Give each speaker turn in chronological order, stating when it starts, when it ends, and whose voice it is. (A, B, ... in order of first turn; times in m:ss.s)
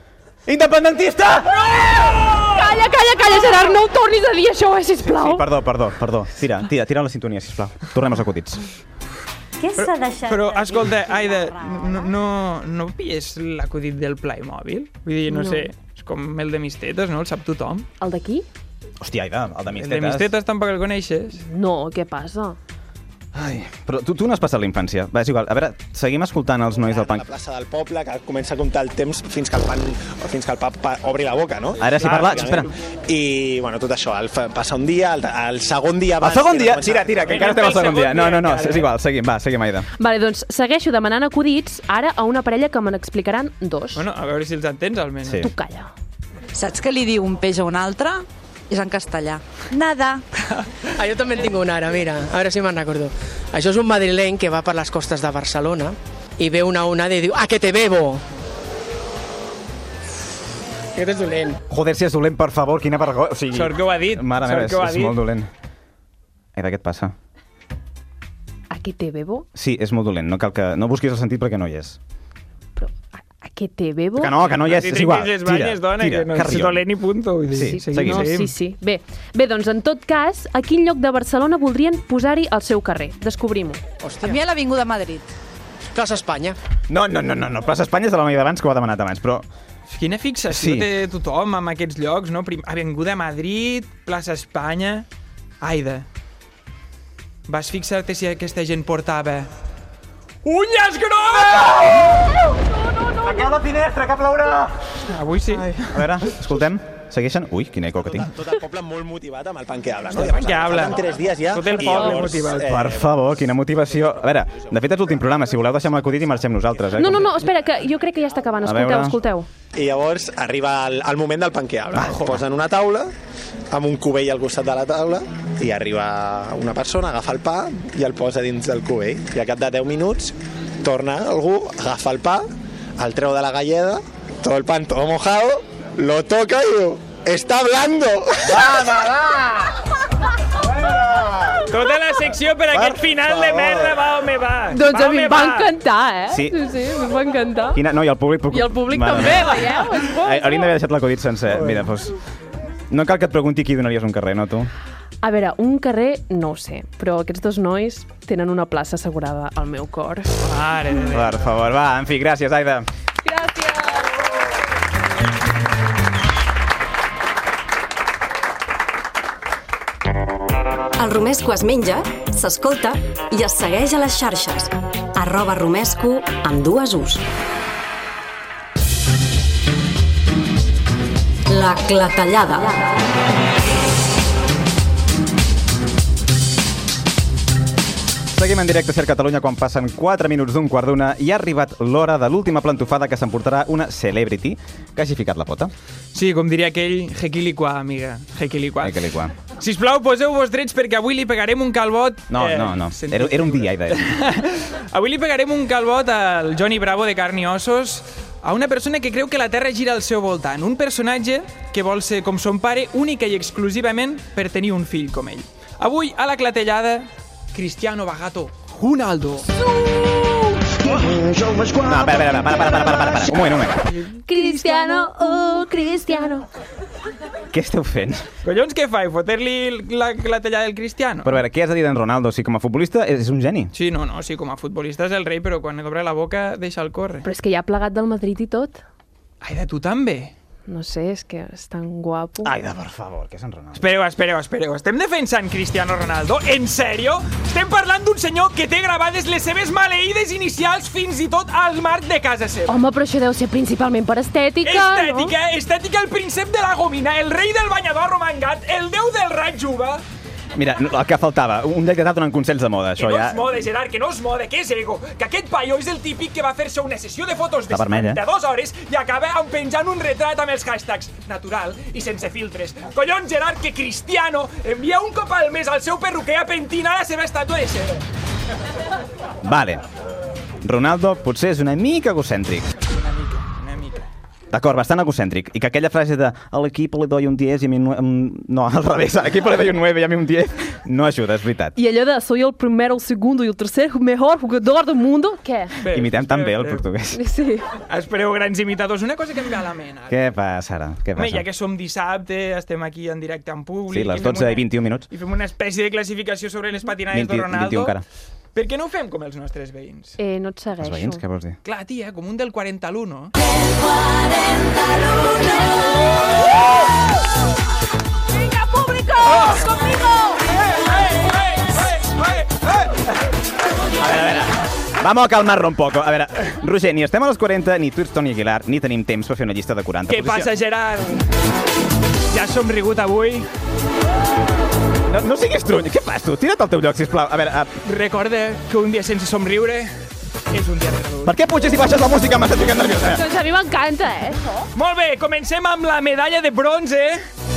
0:00.5-0:02.1 A
0:02.5-0:05.4 B
0:05.0-0:08.6 A
0:09.6-0:12.1 C
0:09.8-0:17.9 D
0:15.3-0:15.7 B
0:18.0-0:18.5 B
0:19.0-0:20.3 A
0:19.8-0:21.4 D
0:21.4-0:22.6 B
0:23.3-0:27.2 A
0:26.8-0:37.6 E
0:31.8-0:32.7 A
0:32.0-0:32.5 D
0:36.2-0:39.9 A
0:37.3-0:38.9 D
0:40.0-0:44.0 B
0:44.0-0:45.4 D
0:45.2-0:45.5 A
0:45.4-0:45.9 B
0:46.5-0:50.2 F
0:51.0-0:58.2 G
1:01.0-1:01.6 G
1:01.7-1:05.5 A
1:03.5-1:05.2 D
1:06.6-1:07.1 A
1:08.7-1:09.5 B
1:09.6-1:12.0 A
1:12.8-1:14.4 B
1:14.2-1:16.8 A
1:14.5-1:18.5 D
1:17.5-1:18.3 A
1:17.7-1:23.8 B
1:24.0-1:24.4 G
1:24.2-1:25.3 F
1:25.9-1:26.6 G
1:26.9-1:29.5 A
1:29.9-1:35.1 D
1:30.5-1:30.9 A
1:35.6-1:36.1 D
1:37.5-1:39.5 D
1:40.4-1:42.2 D
1:41.6-1:42.0 A
1:43.2-1:44.7 A
1:45.1-1:46.1 D
1:45.9-1:48.3 A
1:48.1-1:53.1 E
1:50.1-1:52.7 D
1:52.6-1:57.5 A
1:57.0-1:59.5 B
1:58.6-1:59.2 A
1:59.8-2:03.1 E
2:01.9-2:02.4 A
2:03.7-2:12.4 E
2:13.0-2:18.8 E
2:18.6-2:19.2 A
2:21.7-2:25.7 D
2:24.7-2:27.8 B
2:26.3-2:26.6 A
2:27.7-2:32.1 A
2:28.5-2:30.7 B
2:32.9-2:34.7 A
2:35.2-2:40.4 B
2:40.4-2:41.4 D
2:41.1-2:42.9 A
2:43.2-2:44.0 B
2:51.0-2:57.2 C
3:01.5-3:02.8 C
3:08.3-3:15.7 A
3:16.1-3:19.0 D
3:18.8-3:19.3 A
3:19.5-3:39.5 D
3:22.3-3:24.2 A
3:41.8-3:43.8 A
3:43.9-3:45.1 D
3:44.3-3:46.4 B
3:47.5-3:48.2 A
3:48.4-3:51.4 D
3:51.2-3:53.7 A
3:53.7-3:57.2 D
3:57.2-3:58.8 B
3:59.4-4:00.3 D
4:00.7-4:02.6 B
4:02.4-4:03.8 A
4:03.8-4:12.8 D
4:12.7-4:15.3 B
4:14.6-4:20.0 D
4:20.6-4:23.6 A
4:23.0-4:38.0 D
4:27.7-4:28.2 A
4:39.4-4:39.8 A
4:40.6-4:42.7 A
4:42.9-4:44.1 D
4:44.5-4:51.8 A
4:51.8-4:55.7 B
4:55.8-4:56.8 D
4:55.9-4:57.2 A
4:57.1-4:57.7 B
4:57.9-5:00.2 D
5:00.1-5:01.4 A
5:01.2-5:08.0 D
5:03.9-5:05.1 A
5:07.1-5:08.0 A
5:08.6-5:10.2 D
5:10.2-5:11.2 B
5:10.8-5:11.6 A
5:11.6-5:13.3 D
5:19.2-5:22.8 D
5:24.0-5:30.5 A
5:30.1-5:31.2 D
5:32.3-5:33.5 D
5:35.1-5:37.7 A
5:37.8-5:39.9 D
5:40.5-5:41.4 D
5:41.2-5:43.2 A
5:43.1-5:44.7 B
5:44.8-5:47.2 D